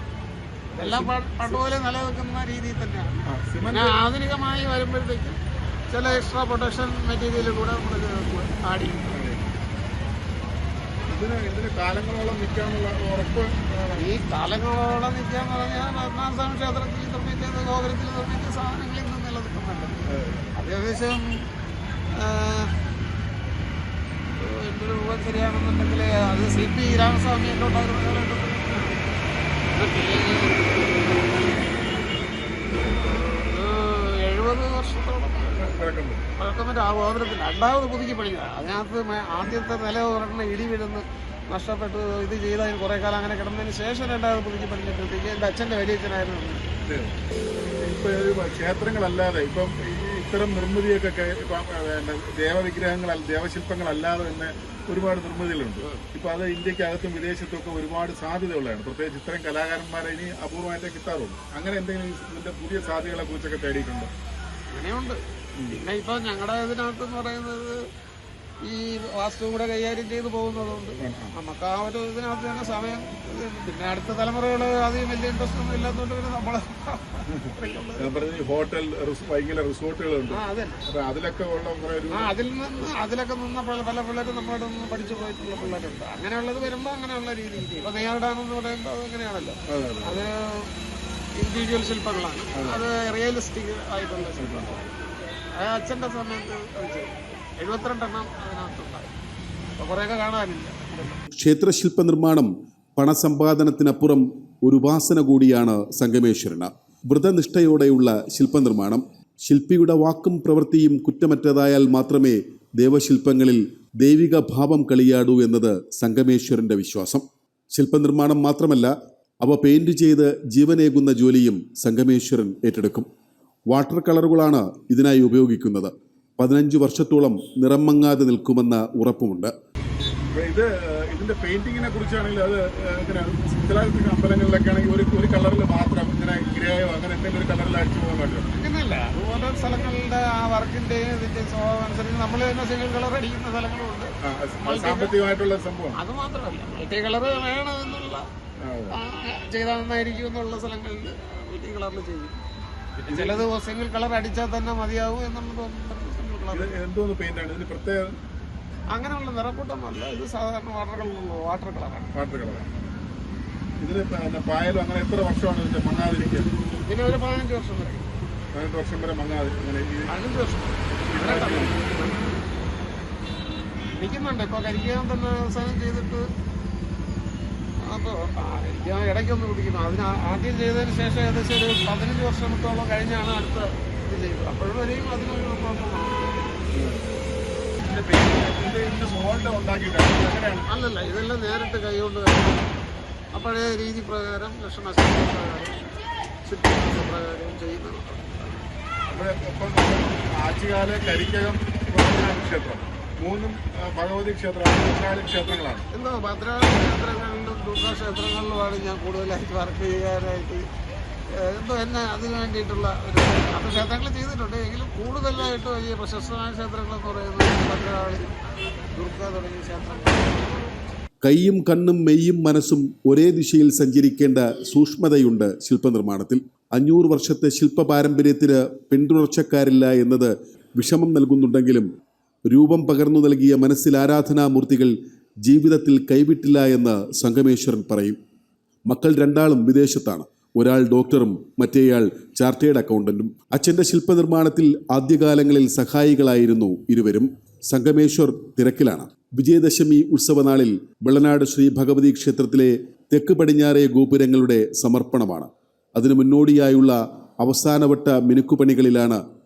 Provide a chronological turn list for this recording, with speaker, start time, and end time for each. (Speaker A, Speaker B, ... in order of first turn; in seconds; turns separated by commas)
Speaker A: 0.8-5.4, Speaker B: 0.8-1.6, Speaker B: 3.3-4.0, Speaker A: 5.9-9.2, Speaker B: 9.1-9.4, Speaker B: 11.1-13.6, Speaker A: 13.9-20.0, Speaker B: 20.1-20.6, Speaker A: 20.6-21.3, Speaker A: 22.2-22.7, Speaker A: 24.4-29.0, Speaker A: 29.7-30.9, Speaker A: 32.9-35.8, Speaker B: 35.5-36.2, Speaker A: 36.4-46.6, Speaker B: 46.9-47.1, Speaker B: 47.8-64.1, Speaker A: 64.7-67.8, Speaker A: 68.6-78.2, Speaker B: 71.0-71.3, Speaker B: 78.0-82.3, Speaker A: 80.3-80.8, Speaker A: 82.1-90.7, Speaker B: 89.7-90.2, Speaker A: 91.4-99.1, Speaker B: 92.5-92.8, Speaker B: 94.4-94.8, Speaker A: 99.8-101.2, Speaker C: 101.3-118.9, Speaker C: 119.4-123.1, Speaker C: 123.7-129.5, Speaker B: 130.3-138.5, Speaker A: 138.5-144.1, Speaker B: 144.2-146.0, Speaker A: 144.6-145.2, Speaker A: 145.9-148.2, Speaker B: 148.6-149.0, Speaker A: 148.9-152.4, Speaker A: 153.0-156.7, Speaker B: 153.1-153.5, Speaker B: 156.5-158.0, Speaker A: 158.9-162.1, Speaker B: 162.1-162.7, Speaker B: 163.8-166.5, Speaker A: 166.8-168.1, Speaker B: 168.5-170.2, Speaker A: 170.1-172.3, Speaker B: 171.1-171.8, Speaker A: 174.0-176.2, Speaker A: 177.8-186.4, Speaker B: 186.7-187.0, Speaker B: 187.9-190.7, Speaker A: 190.7-192.6, Speaker A: 193.3-195.8, Speaker A: 196.4-198.6, Speaker B: 199.1-205.8, Speaker A: 205.9-210.6, Speaker A: 211.3-218.3, Speaker A: 218.9-220.7, Speaker C: 221.2-231.8, Speaker C: 232.5-238.2, Speaker C: 238.9-259.2